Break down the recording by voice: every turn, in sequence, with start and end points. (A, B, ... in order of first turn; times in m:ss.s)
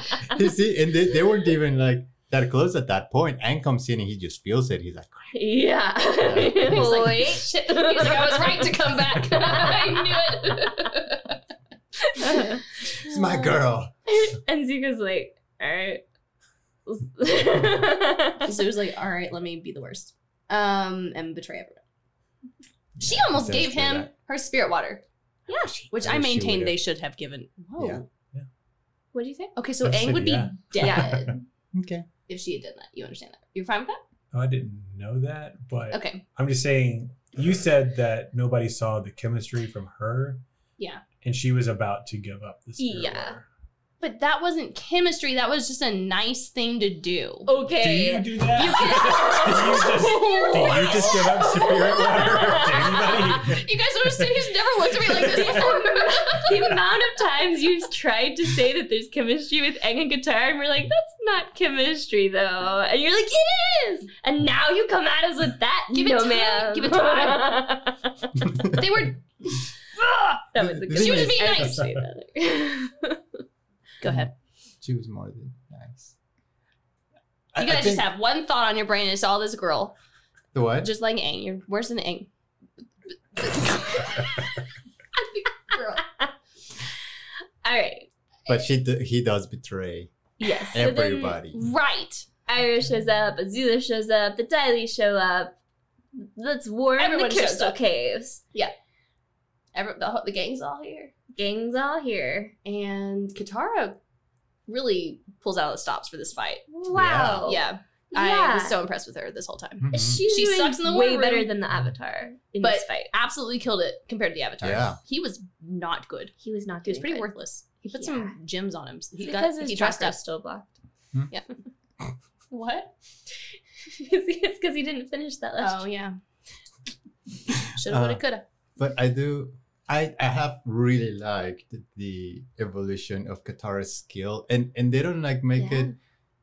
0:00.2-0:05.3 A
0:05.3-0:10.5 B
0:06.2-0:06.9 A
0:06.5-0:11.4 C
0:12.0-0:12.6 B
0:12.2-0:13.6 C
0:12.9-0:13.9 A
0:14.1-0:16.0 B
0:16.8-0:18.6 B
0:18.4-0:21.8 C
0:23.0-0:24.1 A
0:23.0-0:25.0 C
0:25.5-0:25.8 B
0:25.5-0:26.8 A
0:25.9-0:28.1 C
0:27.8-0:28.0 A
0:29.1-0:29.5 B
0:29.6-0:31.4 C
0:29.8-0:31.3 D
0:30.8-0:31.3 B
0:31.7-0:32.1 A
0:32.3-0:34.0 C
0:34.3-0:40.4 D
0:35.9-0:36.2 C
0:40.8-0:41.0 C
0:41.2-0:43.4 D
0:42.8-0:43.4 B
0:44.0-0:47.5 C
0:47.4-0:53.6 B
0:47.8-0:55.6 D
0:48.5-0:51.4 C
0:53.5-0:56.9 C
0:55.1-1:08.2 B
1:05.9-1:07.6 C
1:08.5-1:09.6 C
1:10.0-1:13.2 B
1:10.6-1:11.7 A
1:10.9-1:11.8 C
1:14.0-1:14.3 C
1:14.0-1:14.3 A
1:14.8-1:16.1 A
1:17.5-1:18.1 A
1:17.6-1:19.9 C
1:20.5-1:20.9 A
1:20.8-1:22.3 C
1:23.3-1:24.5 C
1:25.1-1:26.0 C
1:26.0-1:26.3 B
1:27.6-1:28.1 B
1:28.5-1:30.1 A
1:30.4-1:31.4 B
1:30.7-1:31.6 A
1:31.5-1:32.3 C
1:32.5-1:35.6 B
1:36.2-1:38.4 B
1:37.0-1:37.8 C
1:39.7-1:41.1 C
1:41.3-1:42.5 B
1:42.6-1:44.0 C
1:44.7-1:46.6 C
1:46.7-1:48.8 B
1:46.9-1:47.5 A
1:47.4-1:51.5 C
1:49.8-1:50.2 A
1:49.9-1:53.1 B
1:52.6-1:56.3 C
1:54.6-1:55.0 A
1:56.4-1:57.3 B
1:56.8-2:00.2 C
1:57.9-1:58.3 B
1:59.2-2:00.7 B
2:02.5-2:02.9 C
2:03.9-2:05.9 B
2:05.6-2:06.2 C
2:07.5-2:08.2 A
2:07.8-2:08.4 C
2:08.8-2:15.9 A
2:15.6-2:15.9 B